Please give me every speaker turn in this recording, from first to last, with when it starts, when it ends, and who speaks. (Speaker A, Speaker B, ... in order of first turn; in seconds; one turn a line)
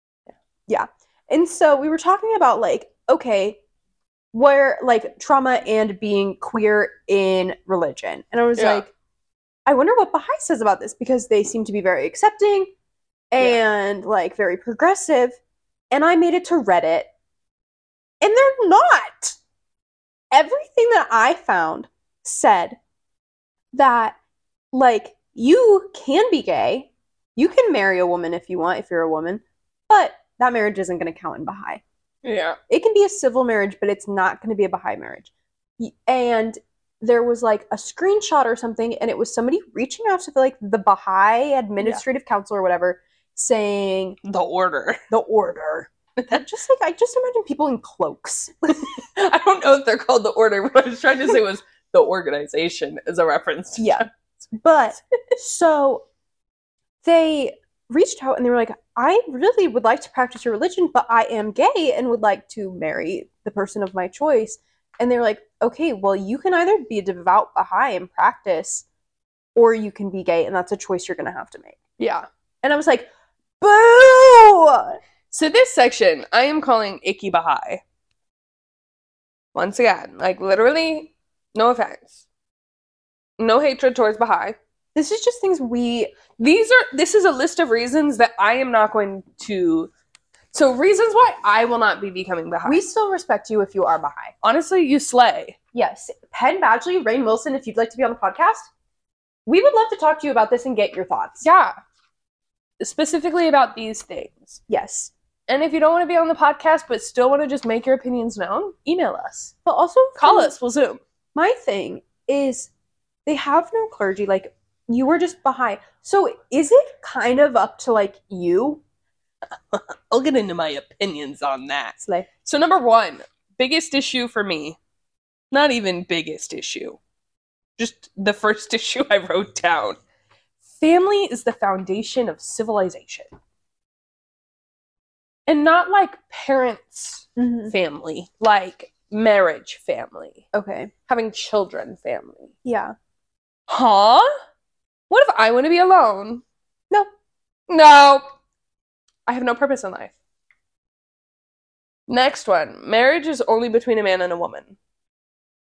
Speaker A: 0.7-3.6
Speaker A: 4.3-8.9
Speaker B: 8.6-8.8
Speaker A: 9.7-12.7
Speaker A: 13.3-15.4
Speaker A: 15.9-17.1
Speaker A: 18.2-19.4
Speaker A: 20.3-22.8
Speaker A: 23.7-24.2
Speaker A: 24.7-31.8
Speaker B: 32.2-32.6
Speaker A: 32.7-44.2
Speaker B: 44.2-45.0
Speaker A: 45.1-48.9
Speaker B: 48.9-54.1
Speaker A: 53.8-56.0
Speaker A: 57.0-68.8
Speaker A: 69.5-71.8
Speaker B: 72.0-72.2
Speaker A: 72.6-73.1
Speaker A: 73.6-75.0
Speaker B: 75.3-77.8
Speaker B: 79.5-82.2
Speaker B: 83.4-84.6
Speaker A: 84.9-86.2
Speaker B: 86.4-89.9
Speaker B: 90.5-92.8
Speaker A: 92.6-94.3
Speaker B: 94.4-95.6
Speaker A: 95.7-98.7
Speaker A: 99.5-101.5
Speaker B: 101.4-101.7
Speaker B: 102.8-104.6
Speaker A: 104.7-105.1
Speaker B: 105.5-109.5
Speaker A: 109.7-110.5
Speaker B: 110.2-111.0
Speaker A: 111.3-112.7
Speaker A: 113.2-118.8
Speaker B: 119.7-124.8
Speaker A: 122.0-122.3
Speaker B: 125.5-127.0
Speaker B: 127.8-130.0
Speaker B: 130.8-133.3
Speaker B: 135.5-140.4
Speaker A: 137.3-137.7
Speaker A: 140.5-140.9
Speaker B: 141.1-142.5
Speaker A: 142.6-142.9
Speaker B: 143.7-144.3
Speaker B: 145.1-146.4
Speaker B: 147.7-148.2
Speaker B: 149.3-150.2
Speaker B: 152.1-154.8